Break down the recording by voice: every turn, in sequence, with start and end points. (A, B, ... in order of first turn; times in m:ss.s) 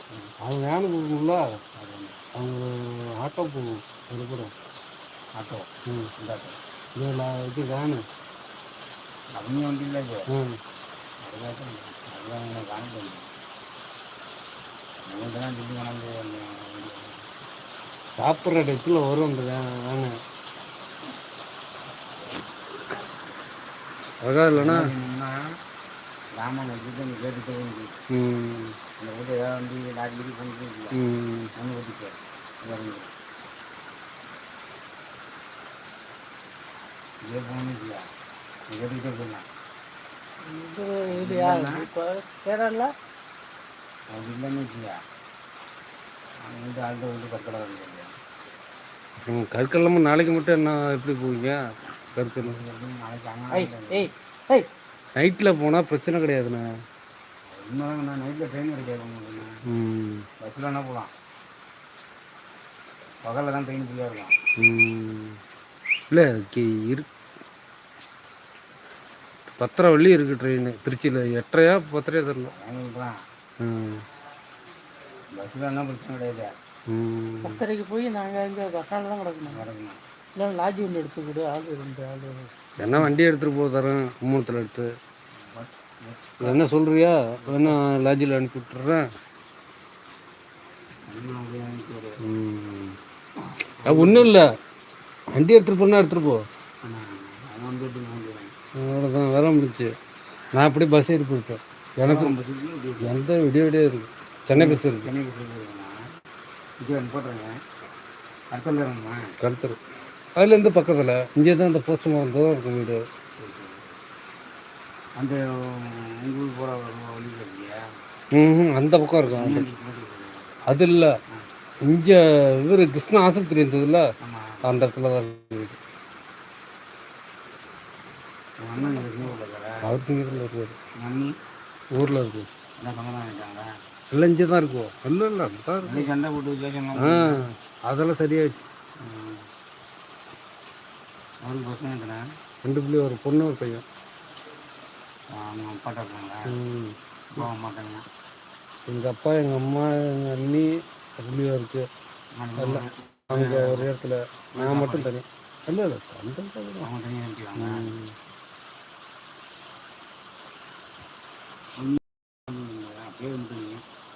0:00.4-0:01.4 A
0:01.8-0:02.2 B
0:02.3-0:04.5 A
0:05.4-0:06.6 B
0:07.0-0:08.0 A
0:09.3-0:10.2 B
0:11.2-0:13.2 B
0:15.1-0:17.2 B
0:18.2-0:20.1 A
0:24.2-0:24.8 A
0:24.5-0:25.3 B
0:26.4-0:27.9 B
0:28.1-0:28.7 A
0:29.0-0:31.0 B
0:30.9-0:31.5 A
0:31.6-0:33.1 B
0:37.2-0:38.0 B
0:38.7-0:39.4 B
0:40.4-0:42.9 C
0:41.1-0:41.9 B
0:44.1-0:45.0 B
0:46.4-0:48.1 B
0:49.3-0:51.6 A
0:52.2-0:52.6 A
0:52.4-0:54.1 B
0:53.5-0:54.7 C
0:55.2-0:56.6 A
0:57.5-0:59.5 B
0:59.7-1:00.2 A
1:00.4-1:01.1 B
1:03.2-1:04.3 B
1:04.6-1:05.4 A
1:06.1-1:07.0 A
1:09.6-1:12.5 A
1:12.4-1:13.1 B
1:13.6-1:14.0 A
1:15.3-1:16.5 B
1:16.9-1:17.6 A
1:17.4-1:19.6 C
1:19.5-1:20.0 B
1:20.4-1:22.5 C
1:22.8-1:24.9 A
1:25.4-1:26.6 B
1:26.4-1:29.0 A
1:27.4-1:27.8 B
1:31.1-1:32.1 B
1:32.2-1:33.0 A
1:33.6-1:34.4 B
1:33.8-1:34.4 A
1:35.4-1:36.4 A
1:36.8-1:38.5 B
1:38.8-1:39.9 A
1:40.6-1:42.3 A
1:42.0-1:43.2 B
1:43.0-1:45.1 A
1:44.5-1:45.9 B
1:46.8-1:47.6 B
1:48.5-1:49.2 B
1:49.4-1:49.8 A
1:50.4-1:53.0 A
1:53.4-1:54.0 B
1:55.2-1:57.8 B
1:58.3-1:59.6 A
1:59.3-2:00.8 B
2:00.7-2:01.1 A
2:01.8-2:04.0 A
2:04.2-2:04.6 B
2:04.6-2:05.8 A
2:08.6-2:09.8 B
2:09.8-2:10.8 A
2:11.0-2:11.3 B
2:11.9-2:12.5 A
2:12.8-2:13.6 B
2:14.1-2:16.1 A
2:15.8-2:17.3 B
2:17.0-2:18.6 A
2:19.0-2:19.4 B
2:21.4-2:22.2 B
2:22.6-2:23.8 A
2:25.3-2:26.5 B
2:26.5-2:27.4 A
2:27.3-2:28.0 B
2:28.9-2:31.9 A
2:32.4-2:33.9 B
2:32.6-2:36.9 A
2:34.6-2:35.1 B
2:36.8-2:37.9 B
2:37.6-2:38.1 A
2:41.8-2:43.8 B